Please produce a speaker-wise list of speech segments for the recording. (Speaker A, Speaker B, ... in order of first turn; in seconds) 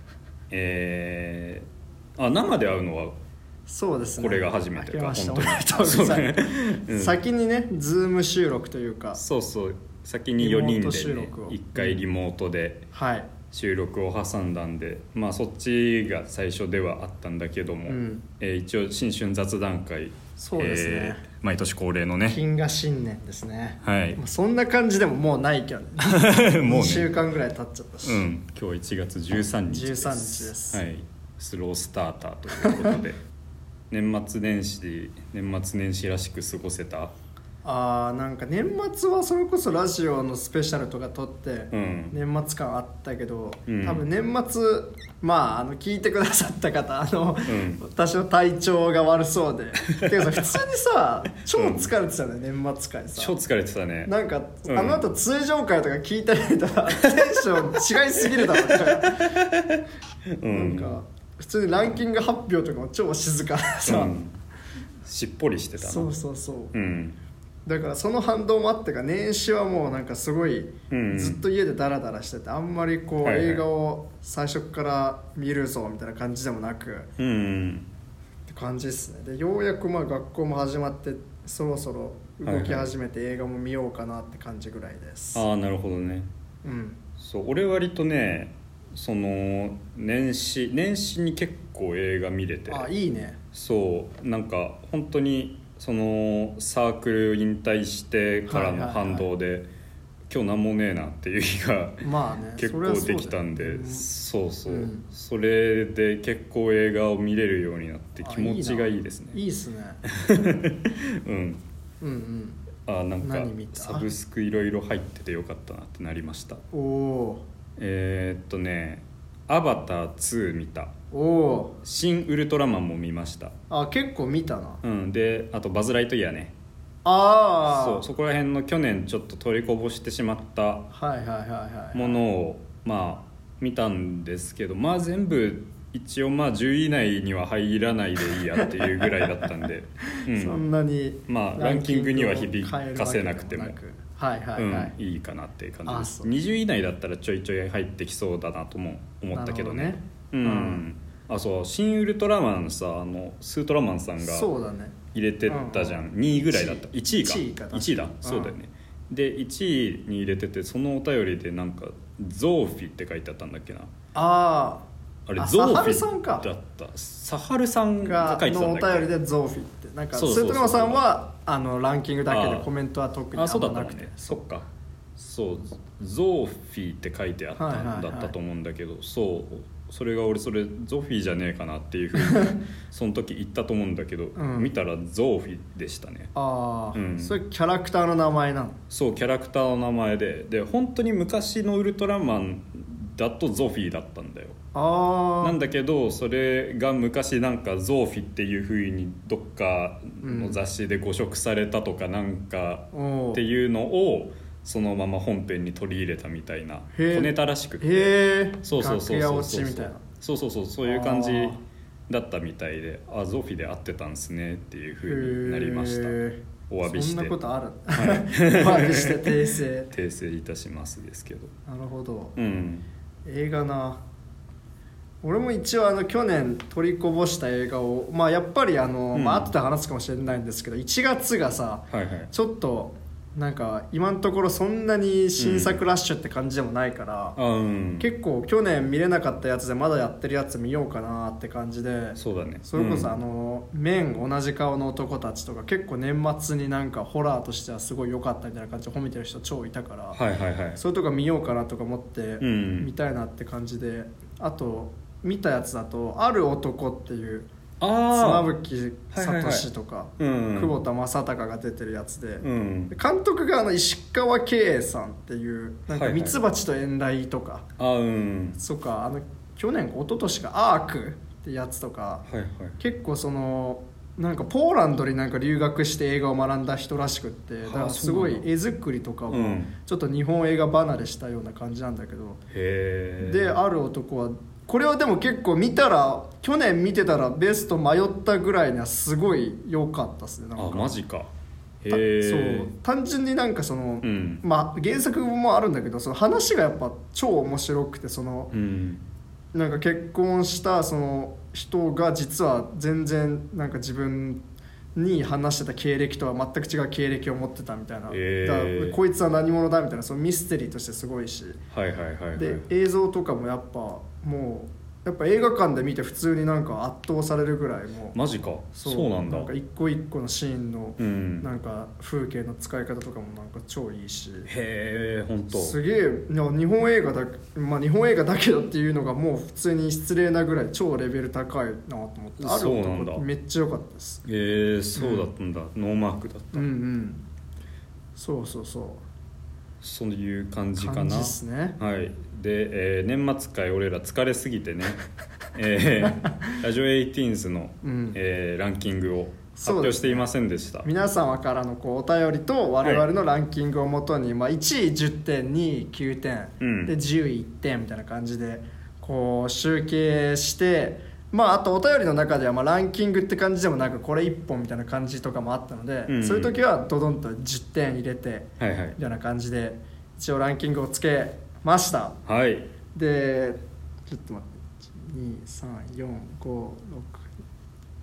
Speaker A: 0.5-3.1, 4.2-7.2, 9.1-12.9, 13.5-22.4, 23.8-24.2, 26.0-27.1, 28.0-33.2, 33.9-37.1, 41.7-42.1, 43.7-44.0, 47.5-47.8, 51.5-51.9, 53.1-54.1, 54.7-55.0, 57.0-59.8, 60.4-61.0, 63.8-64.3, 65.0-66.1, 66.7-67.2, 70.9-71.4, 73.2-73.6, 77.2-77.9, 82.4-82.9, 85.3-86.3, 87.2-92.9, 93.5-99.7, 100.3-109.4, 110.0-111.6, 112.8-116.6, 117.8-120.9, 121.8-123.5, 124.8-126.5, 127.6-130.9, 131.9-140.6, 141.3-143.8, 144.6-154.5, 155.1-163.9, 165.3-169.1, 170.1-171.0, 172.3-172.7, 173.3-186.3, 186.9-187.4, 188.9-194.6, 195.4-217.3, 217.9-221.5, 222.3-222.8, 229.1-229.5, 231.9-232.3, 235.4-235.8, 237.3-238.1, 242.2-243.1, 250.1-250.8, 252.4-252.9, 257.8-258.5, 259.1-259.7, 260.2-260.8, 262.4-262.9, 265.9-266.4, 267.8-268.6, 272.3-272.8, 277.6-278.5, 279.3-279.7, 282.5-283.6, 290.6-291.3, 291.8-292.7, 294.0-294.4, 298.5-299.0, 308.1-309.0, 311.7-312.6, 318.1-319.5, 321.0-321.5, 324.5-325.8, 332.4-333.2, 334.2-336.7, 339.8-345.0, 345.5-350.9, 352.8-353.1, 356.6-356.9, 366.1-366.5, 368.6-369.0, 372.2-372.7
Speaker B: 3.7-9.2, 10.4-12.0, 12.9-13.3, 17.9-18.2, 20.4-21.2, 22.3-28.2, 29.7-30.8, 37.6-53.4, 54.0-59.4, 60.5-64.2, 65.8-66.7, 67.7-77.1, 78.5-85.5, 86.6-87.0, 92.7-93.4, 98.5-99.2, 102.0-104.1, 104.7-105.1, 108.2-110.0, 112.0-112.6, 113.2-114.1, 116.7-117.4, 121.1-121.8, 123.7-124.8, 127.0-128.0, 130.9-132.2, 138.6-139.4, 140.1-144.9, 145.8-146.3, 149.3-150.8, 154.2-158.6, 164.1-164.8, 165.4-166.4, 168.0-174.4, 177.6-178.3, 182.2-182.6, 184.3-184.7, 186.3-188.8, 194.7-195.6, 200.2-200.6, 202.9-203.4, 206.9-210.0, 210.8-211.6, 215.0-219.9, 221.7-222.3, 223.2-224.0, 225.2-237.4, 238.0-250.2, 250.8-257.5, 258.1-267.6, 268.6-272.2, 272.8-282.4, 283.2-291.0, 291.9-298.5, 299.5-304.4, 304.9-311.6, 312.4-318.1, 318.7-324.5, 325.5-334.2, 334.9-335.3, 336.5-337.2, 338.1-339.0, 340.8-341.8, 346.2-346.6, 347.8-348.2, 349.5-350.2, 350.8-372.2, 372.9-377.3